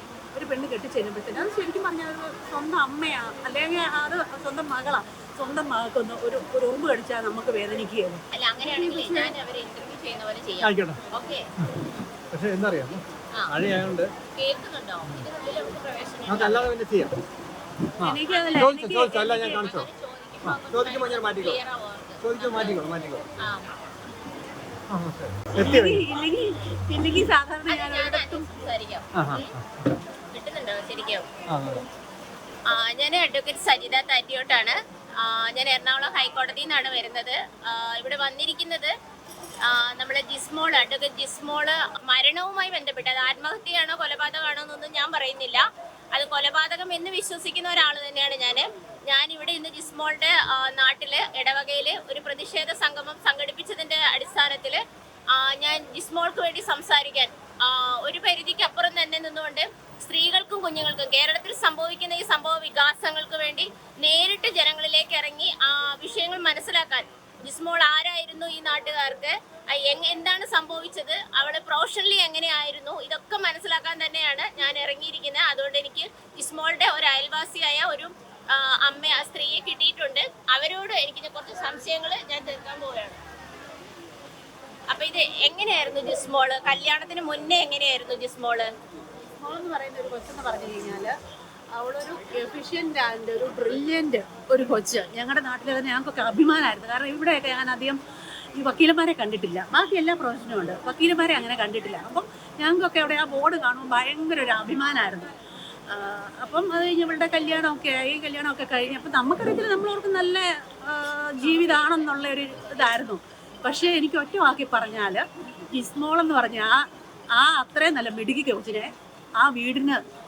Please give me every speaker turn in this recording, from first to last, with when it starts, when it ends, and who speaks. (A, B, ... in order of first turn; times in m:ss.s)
0:00.3-0:09.3 A
0:08.3-0:11.5 B
0:10.6-0:11.0 C
0:12.3-0:14.1 C
0:14.4-0:16.7 B
0:16.3-0:17.1 C
0:18.0-0:19.9 C
0:18.0-0:19.8 A
0:18.3-0:23.7 B
0:20.4-0:21.6 C
0:22.2-0:23.2 C
0:24.9-0:26.0 C
0:25.6-0:28.5 A
0:27.7-0:29.5 B
0:29.2-0:29.9 C
0:30.3-0:31.3 B
0:31.5-0:31.8 C
0:32.7-0:38.9 B
0:39.6-0:45.6 B
0:46.1-0:54.8 B
0:55.3-1:23.2 B
1:24.9-1:28.7 B
1:29.4-1:31.2 A
1:31.7-1:38.0 A
1:38.6-1:45.3 A
1:45.9-1:56.8 A
1:57.3-2:00.0 A